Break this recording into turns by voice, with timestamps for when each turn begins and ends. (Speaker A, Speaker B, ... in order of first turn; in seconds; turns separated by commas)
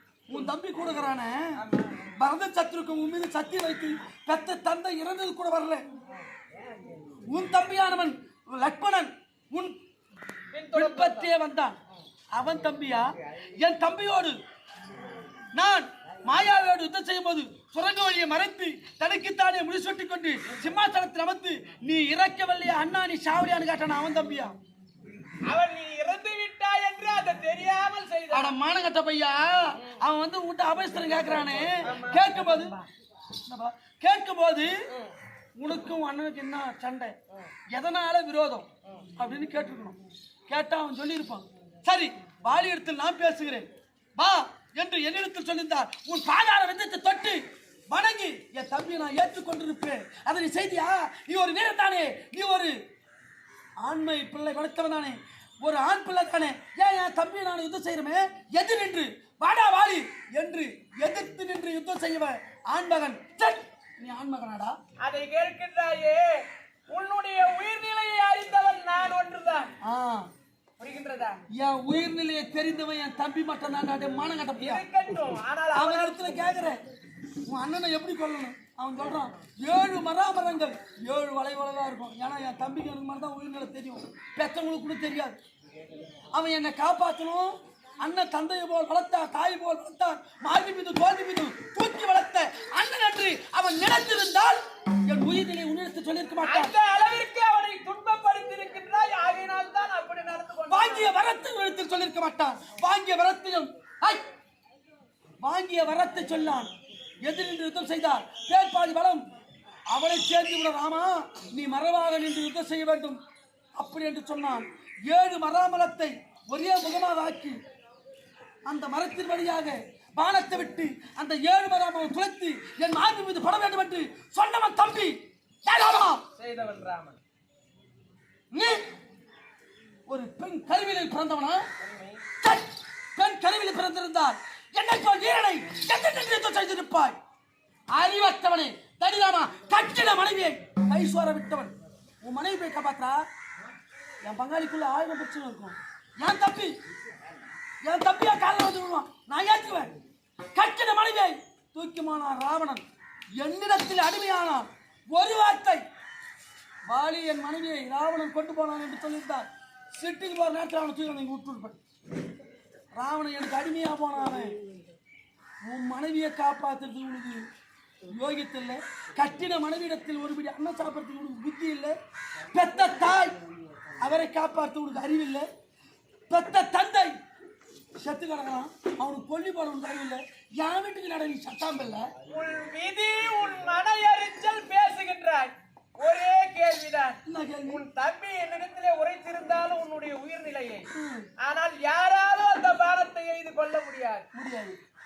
Speaker A: 0.3-1.6, Speaker B: 1.6-2.1, Speaker A: 2.2-5.8, Speaker A: 7.3-9.8, Speaker B: 10.5-11.3, Speaker A: 10.7-11.8, Speaker A: 12.3-14.4, Speaker A: 15.6-24.6, Speaker B: 25.5-28.6, Speaker A: 28.3-32.8, Speaker B: 31.8-32.8, Speaker A: 33.5-34.7, Speaker B: 34.9-35.2, Speaker A: 35.6-37.2, Speaker A: 37.7-40.0, Speaker B: 38.8-39.1, Speaker A: 40.5-52.8, Speaker A: 53.8-64.8, Speaker B: 65.0-69.7, Speaker A: 69.8-70.3, Speaker B: 70.8-71.4, Speaker A: 71.5-74.8, Speaker B: 74.6-76.4, Speaker A: 75.7-76.8, Speaker A: 77.5-85.4, Speaker A: 86.3-96.7, Speaker B: 96.4-101.2, Speaker A: 100.7-104.2, Speaker A: 105.4-106.7, Speaker A: 107.2-109.2, Speaker A: 109.9-113.2, Speaker A: 113.8-117.6, Speaker A: 118.7-126.2, Speaker B: 126.4-127.2, Speaker A: 128.5-128.9, Speaker A: 130.1-131.7, Speaker B: 131.8-132.2, Speaker A: 132.4-137.2, Speaker A: 137.9-143.2, Speaker A: 144.2-146.7, Speaker A: 147.8-150.0, Speaker A: 150.6-152.8, Speaker A: 153.4-155.8, Speaker A: 156.9-161.8, Speaker A: 163.0-164.5, Speaker A: 165.7-167.4, Speaker A: 168.1-171.9, Speaker A: 172.5-173.4, Speaker A: 174.0-175.5, Speaker A: 176.3-177.2, Speaker A: 178.0-182.1, Speaker B: 182.3-194.3, Speaker A: 187.3-187.8, Speaker A: 190.9-191.3, Speaker A: 194.3-194.8